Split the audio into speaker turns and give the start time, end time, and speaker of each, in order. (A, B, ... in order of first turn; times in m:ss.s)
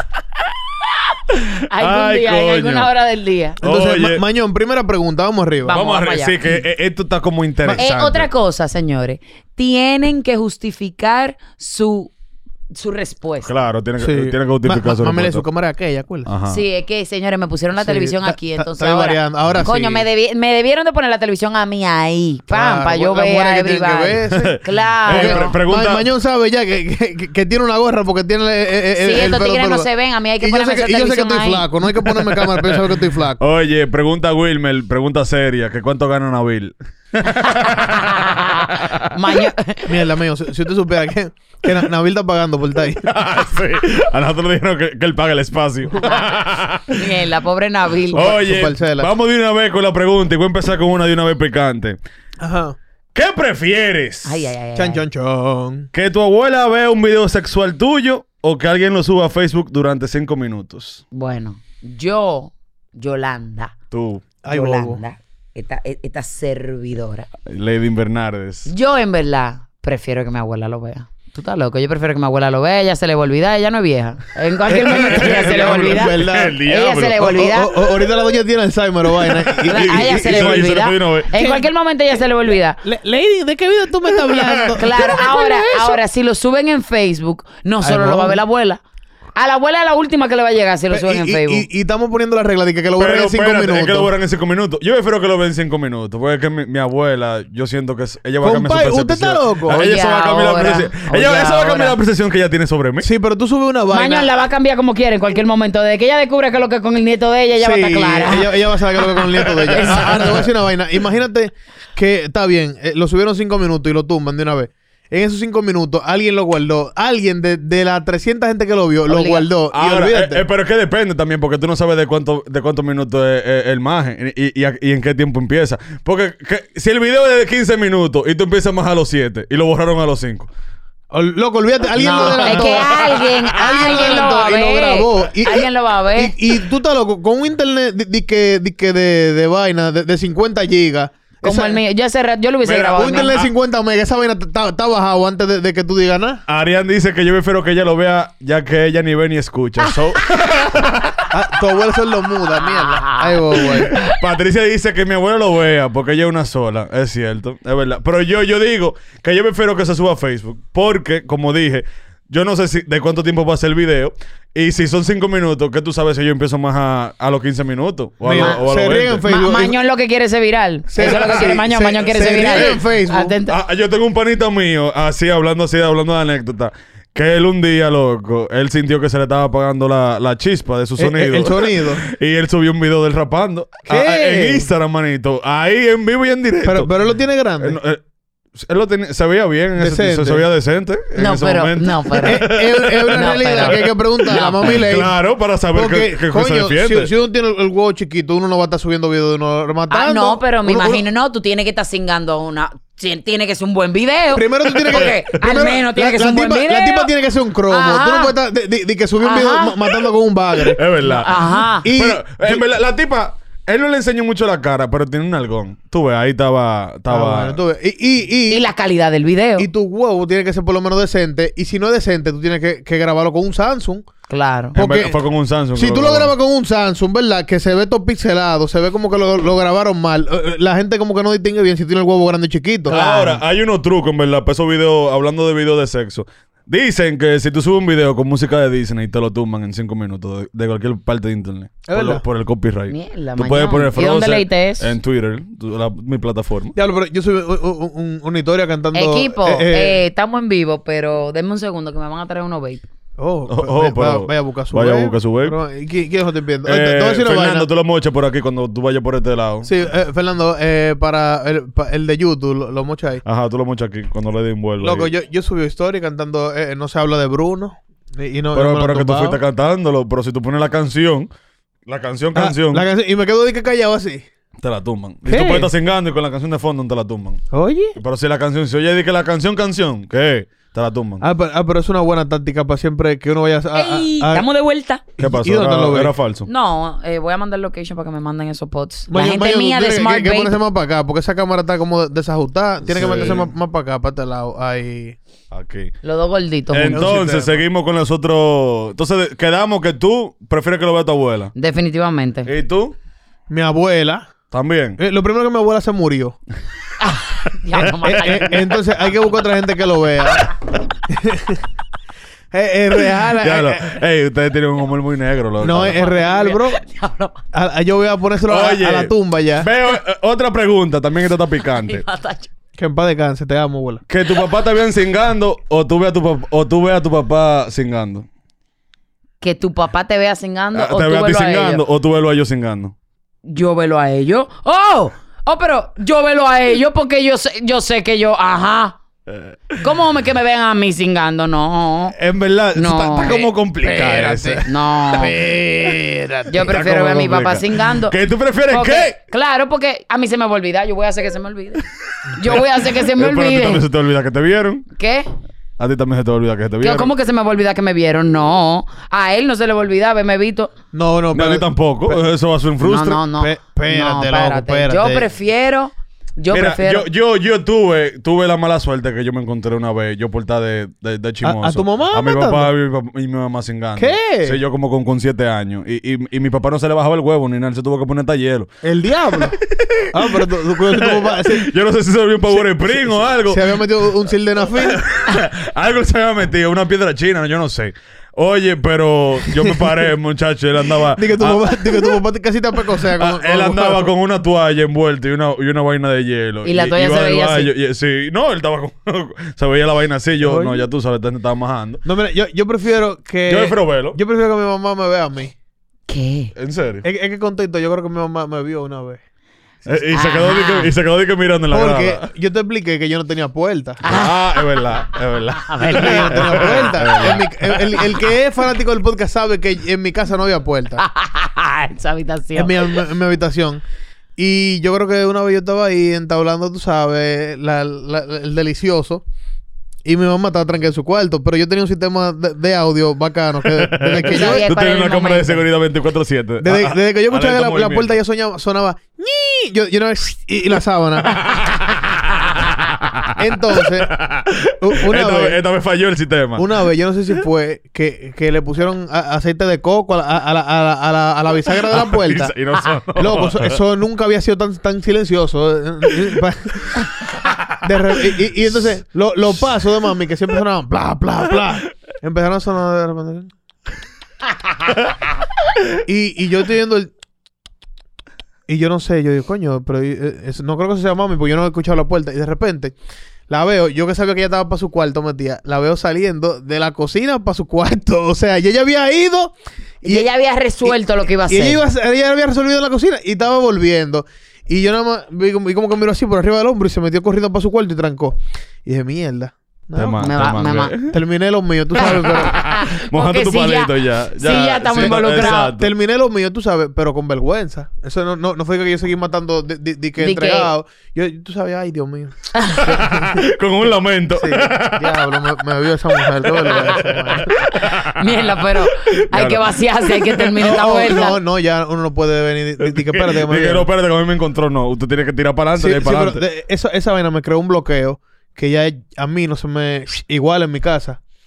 0:01.7-0:03.6 A
0:01.7-0:02.9 B
0:03.6-0:04.2 B
0:03.6-0:05.8 C
0:05.6-0:06.4 A
0:05.7-0:08.3 B
0:07.7-0:12.1 A
0:12.7-0:13.5 A
0:13.4-0:15.4 B
0:14.0-0:16.3 C
0:16.2-0:16.6 B
0:16.5-0:25.6 A
0:17.8-0:20.0 C
0:22.5-0:29.9 C
0:24.4-0:26.1 B
0:29.0-0:31.7 A
0:30.4-0:33.4 C
0:32.5-0:32.8 B
0:33.4-0:38.3 B
0:38.0-0:38.5 A
0:39.1-0:39.9 A
0:39.8-0:43.1 C
0:43.0-0:46.9 B
0:46.9-0:48.3 A
0:48.1-0:49.1 C
0:48.1-0:52.0 B
0:52.4-0:52.8 C
0:53.1-0:54.4 B
0:54.2-0:55.0 A
0:54.8-0:55.9 C
0:55.9-1:01.0 B
1:01.1-1:03.7 A
1:03.9-1:04.2 B
1:04.4-1:05.0 C
1:04.5-1:07.3 A
1:07.5-1:08.7 B
1:08.6-1:17.7 A
1:14.7-1:16.6 C
1:14.8-1:17.4 B
1:17.2-1:20.6 C
1:19.2-1:21.3 B
1:19.7-1:22.8 A
1:21.3-1:21.7 C
1:22.8-1:26.0 C
1:24.3-1:24.6 B
1:24.8-1:28.8 A
1:27.8-1:28.4 C
1:29.4-1:31.7 A
1:30.9-1:34.1 C
1:33.0-1:43.1 B
1:38.4-1:39.8 C
1:39.7-1:42.0 A
1:43.0-1:44.3 C
1:43.9-1:49.2 A
1:47.6-2:00.4 C
1:49.7-1:50.4 A
1:59.1-1:59.5 A
1:59.7-2:10.5 B
2:11.1-2:21.8 C
2:12.0-2:16.3 A
2:12.2-2:13.3 B
2:21.4-2:23.4 A
2:22.7-2:23.5 B
2:22.7-2:26.4 C
2:26.5-2:31.3 B
2:31.3-2:33.9 C
2:34.0-2:49.2 B
2:48.2-2:49.7 C
2:48.4-2:48.6 A
2:49.2-2:53.6 A
2:50.9-2:53.3 C
2:51.0-2:51.5 B
2:52.2-2:52.7 B
2:53.5-3:06.9 B
3:01.0-3:02.0 C
3:03.9-3:04.7 C
3:06.6-3:07.8 C
3:07.6-3:08.0 B
3:08.6-3:13.8 B
3:09.8-3:10.4 C
3:11.2-3:12.6 A
3:12.2-3:15.2 C
3:13.1-3:14.8 A
3:14.4-3:17.1 B
3:15.7-3:21.0 C
3:19.9-3:27.1 A
3:24.3-3:30.8 C
3:24.9-3:25.1 B
3:27.7-3:28.3 A
3:29.2-3:29.8 A
3:30.8-3:37.6 B
3:31.0-3:31.9 A
3:31.8-3:32.6 C
3:37.1-3:38.6 C
3:38.5-3:39.7 A
3:39.6-3:44.0 C
3:44.3-3:44.8 A
3:44.7-3:45.2 C
3:44.7-3:46.3 B
3:45.7-3:53.4 C
3:52.9-4:06.8 B
3:52.9-3:53.4 A
4:01.9-4:02.2 C
4:02.9-4:04.9 A
4:06.7-4:10.0 C
4:08.9-4:12.8 A
4:13.2-4:17.7 C
4:13.5-4:15.6 B
4:16.6-4:19.7 B
4:19.6-4:23.2 C
4:23.2-4:25.1 B
4:24.8-4:29.4 C
4:28.5-4:31.3 B
4:31.9-4:32.8 B
4:32.3-4:34.2 C
4:34.6-4:37.4 B
4:35.3-4:35.7 C
4:37.5-4:38.0 C
4:38.0-4:41.2 B
4:41.2-4:44.4 C
4:43.7-4:45.0 A
4:45.2-4:46.1 C
4:45.2-4:46.5 B
4:46.4-4:50.6 A
4:49.1-4:55.2 C
4:52.8-4:53.5 B
4:55.5-4:55.9 B
4:56.0-4:57.1 A
4:56.7-5:01.5 B
4:56.9-4:57.6 C
5:01.5-5:02.5 A
5:02.4-5:02.9 B
5:03.5-5:04.3 C
5:04.5-5:05.0 B
5:05.0-5:06.4 C
5:07.0-5:08.7 A
5:08.0-5:10.5 C
5:11.1-5:11.6 C
5:12.5-5:14.0 C
5:13.4-5:16.0 B
5:15.6-5:16.8 C
5:15.8-5:17.4 A
5:17.5-5:19.7 C
5:18.4-5:22.0 B
5:21.8-5:22.5 A
5:22.8-5:24.0 C
5:24.1-5:28.2 B
5:29.4-5:31.8 A
5:30.7-5:32.9 B
5:33.4-5:39.0 A
5:39.3-5:39.6 B
5:39.8-5:42.1 A
5:42.2-5:44.7 B
5:42.7-5:43.5 A
5:43.8-5:46.7 C
5:44.6-5:45.4 A
5:46.5-5:48.1 A
5:46.6-5:49.2 B
5:48.7-5:51.8 A
5:52.4-5:53.8 A
5:52.4-5:54.8 B
5:55.0-5:55.3 A
5:55.8-5:57.1 B
5:56.8-6:00.7 A
6:00.9-6:02.2 C
6:01.3-6:03.2 B
6:02.8-6:07.1 A
6:03.4-6:05.3 C
6:06.5-6:18.7 B
6:11.4-6:12.7 C
6:14.0-6:14.6 C
6:18.8-6:19.6 C
6:19.6-6:23.8 B
6:20.1-6:21.7 C
6:22.4-6:25.0 C
6:24.8-6:32.0 B
6:29.5-6:30.0 C
6:31.1-6:34.1 C
6:33.2-6:42.0 B
6:36.6-6:37.7 A
6:40.4-6:40.8 C
6:42.0-6:45.5 C
6:43.5-6:44.2 B
6:46.1-6:46.5 A
6:46.6-6:47.0 B
6:47.0-6:49.2 C
6:49.9-6:52.2 B
6:50.1-6:50.9 A
6:51.7-6:54.0 C
6:54.0-6:54.6 A
6:54.0-6:58.2 B
6:55.6-6:56.8 A
6:55.9-7:01.0 C
7:01.0-7:03.0 A
7:02.5-7:03.8 C
7:04.4-7:09.2 C
7:10.0-7:14.6 C
7:13.8-7:18.2 B
7:14.3-7:15.6 A
7:16.6-7:21.4 C
7:21.3-7:23.3 B
7:23.4-7:24.1 C
7:24.0-7:26.6 B
7:24.8-7:25.6 C
7:26.6-7:32.5 C
7:31.9-7:33.7 B
7:33.2-7:36.8 C
7:37.8-7:43.5 C
7:46.0-7:47.1 C
7:48.7-7:52.9 C
7:53.5-8:00.3 C
8:00.0-8:01.8 A
8:00.8-8:10.4 C
8:09.9-8:11.1 B
8:10.2-8:10.9 A
8:11.1-8:12.5 C
8:12.0-8:15.7 A
8:12.4-8:15.9 B
8:14.9-8:22.3 C
8:20.2-8:20.7 A
8:22.5-8:22.9 A
8:22.8-8:25.2 B
8:22.9-8:23.4 C
8:24.4-8:27.5 C
8:26.4-8:28.5 B
8:27.7-8:31.4 A
8:29.3-8:31.1 B
8:30.6-8:33.9 C
8:32.8-8:36.4 B
8:35.8-8:41.2 C